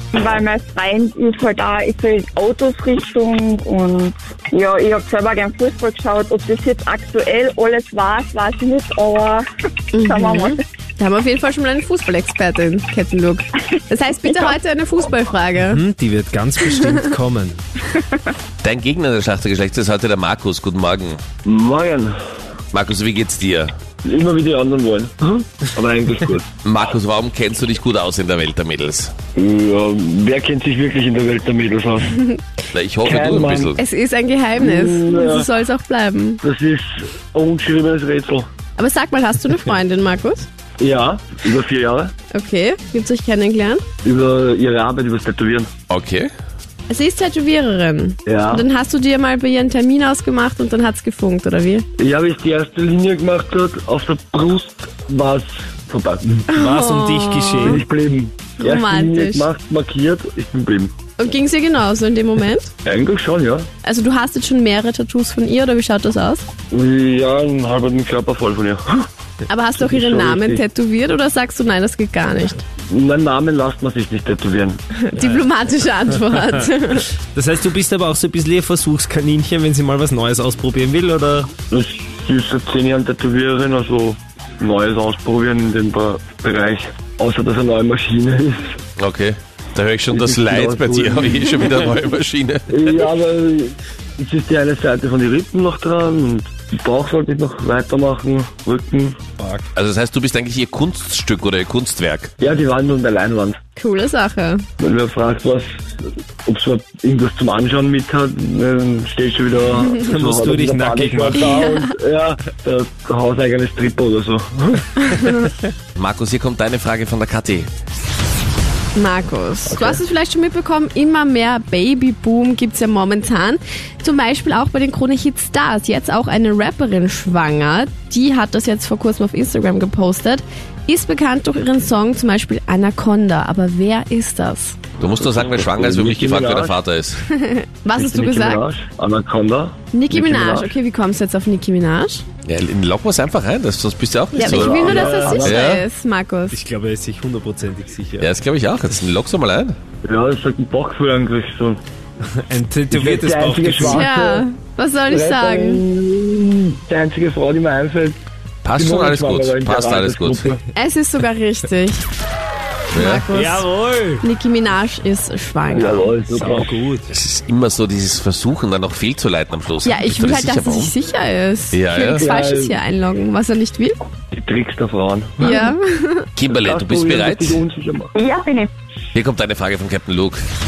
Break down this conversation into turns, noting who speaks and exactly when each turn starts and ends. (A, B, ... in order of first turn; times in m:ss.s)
0:00.1-0:10.6 A
0:09.9-0:15.8 B
0:15.6-0:17.6 C
0:16.8-0:17.1 B
0:17.9-0:18.3 A
0:18.6-0:21.2 D
0:21.4-0:22.2 E
0:22.7-0:23.7 D
0:24.0-0:26.5 E
0:26.6-0:29.1 D
0:29.4-0:32.2 E
0:32.7-0:33.8 D
0:33.0-0:33.7 E
0:33.8-0:36.4 B
0:34.6-0:35.5 E
0:36.4-0:38.5 E
0:38.8-0:40.5 B
0:40.8-0:42.1 E
0:42.3-0:43.8 B
0:44.0-0:45.7 E
0:45.9-0:46.3 D
0:46.9-0:51.8 B
0:48.3-0:48.7 E
0:52.0-0:56.4 E
0:56.5-0:57.8 C
0:56.5-0:57.8 B
0:57.6-1:00.9 E
0:58.6-0:59.5 B
1:01.2-1:02.7 B
1:02.8-1:03.7 E
1:03.8-1:06.5 B
1:06.7-1:09.1 E
1:09.5-1:12.6 B
1:09.8-1:10.6 E
1:12.9-1:14.8 E
1:15.0-1:17.1 B
1:15.2-1:15.5 C
1:16.0-1:16.4 C
1:17.2-1:21.5 C
1:21.7-1:28.8 E
1:29.0-1:32.8 D
1:30.1-1:31.6 E
1:32.7-1:39.2 E
1:39.4-1:39.7 C
1:39.8-1:42.3 D
1:42.4-1:43.6 E
1:43.8-1:44.7 B
1:44.8-1:55.2 E
1:50.0-1:51.6 C
1:51.4-1:51.9 B
1:56.0-1:57.7 D
1:59.0-2:14.8 B
1:59.7-2:00.0 E
2:15.0-2:17.2 D
2:15.2-2:16.8 E
2:17.3-2:18.6 B
2:18.0-2:20.8 E
2:19.9-2:22.2 B
2:22.4-2:24.9 D
2:24.3-2:26.6 B
2:24.4-2:25.6 E
2:24.8-2:25.4 C
2:25.4-2:25.8 D
2:26.5-2:28.3 C
2:28.2-2:29.8 D
2:30.0-2:31.8 E
2:32.4-2:34.1 C
2:32.9-2:34.4 E
2:33.8-2:35.8 B
2:35.1-2:38.2 E
2:38.6-2:40.5 D
2:38.7-2:40.6 E
2:40.7-2:42.0 B
2:42.9-2:43.2 D
2:42.9-2:43.7 B
2:43.3-2:44.3 C
2:44.2-2:46.2 B
2:45.7-2:46.8 E
2:46.3-2:47.2 C
2:47.2-2:50.9 D
2:49.8-2:54.0 B
2:51.7-2:52.3 D
2:52.2-2:52.8 E
2:54.3-2:55.7 E
2:55.4-2:56.3 B
2:56.4-2:57.6 D
2:56.4-2:58.1 E
2:58.2-2:58.7 A
2:59.1-3:00.4 D